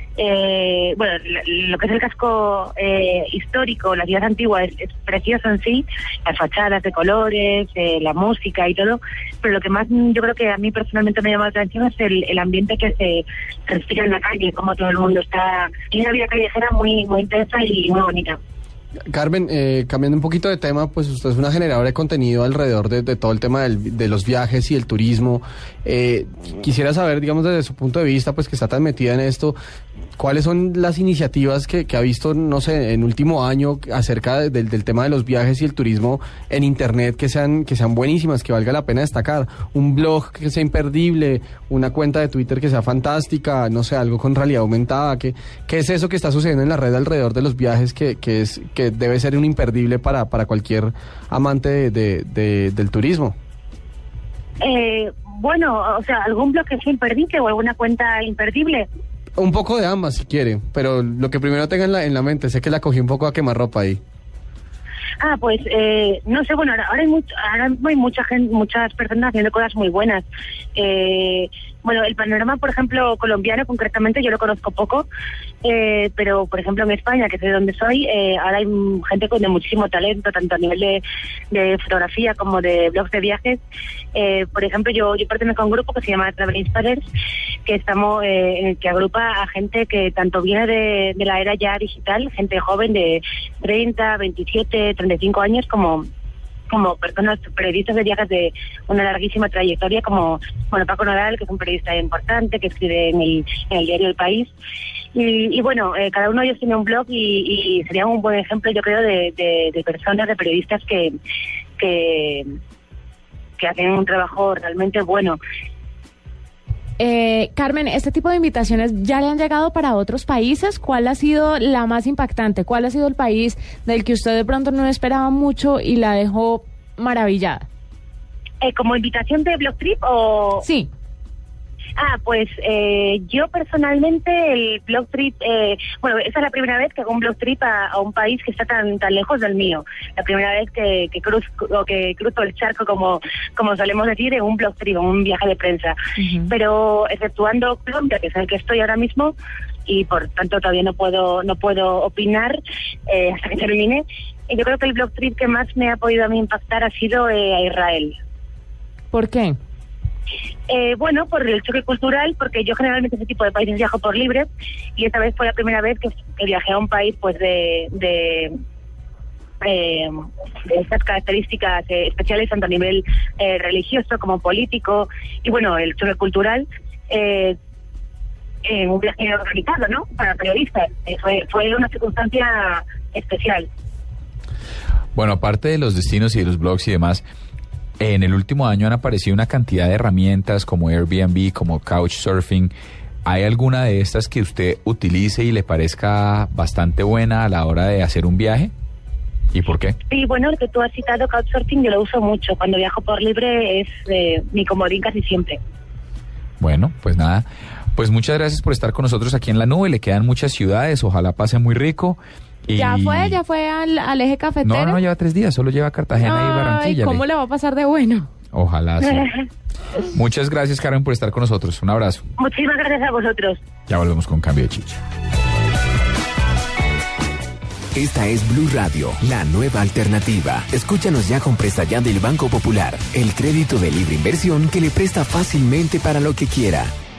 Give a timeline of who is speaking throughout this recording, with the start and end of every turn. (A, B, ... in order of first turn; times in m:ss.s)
0:00.2-0:18.4 A
0:19.1-0:29.6 B
0:30.2-0:53.4 B
0:54.6-0:58.9 A
0:59.4-1:04.0 B
1:05.2-1:10.2 A
1:10.8-1:15.1 A
1:15.6-1:23.6 A
1:24.2-1:27.0 A
1:27.7-1:36.1 A
1:36.7-1:44.5 A
1:45.2-1:51.1 A
1:51.8-1:52.5 A
1:53.6-1:55.4 A
1:57.0-2:07.7 C
2:08.6-2:10.6 A
2:10.6-2:10.9 C
2:12.0-2:26.0 A
2:26.2-2:26.5 C
2:26.5-2:29.3 A
2:29.9-2:32.6 A
2:33.1-2:38.2 A
2:39.1-2:39.6 C
2:40.7-2:48.5 A
2:49.6-2:57.6 A
2:58.7-3:03.7 A
3:05.1-3:07.2 D
3:08.0-3:12.7 D
3:13.2-3:18.7 D
3:19.5-3:20.0 D
3:20.1-3:25.6 A
3:26.6-3:33.4 D
3:32.8-3:35.0 C
3:34.6-3:37.2 D
3:36.2-3:38.3 C
3:38.5-3:39.3 D
3:39.0-3:39.4 A
3:40.1-3:42.2 D
3:42.4-3:43.6 A
3:43.9-3:45.0 D
3:47.9-3:56.9 E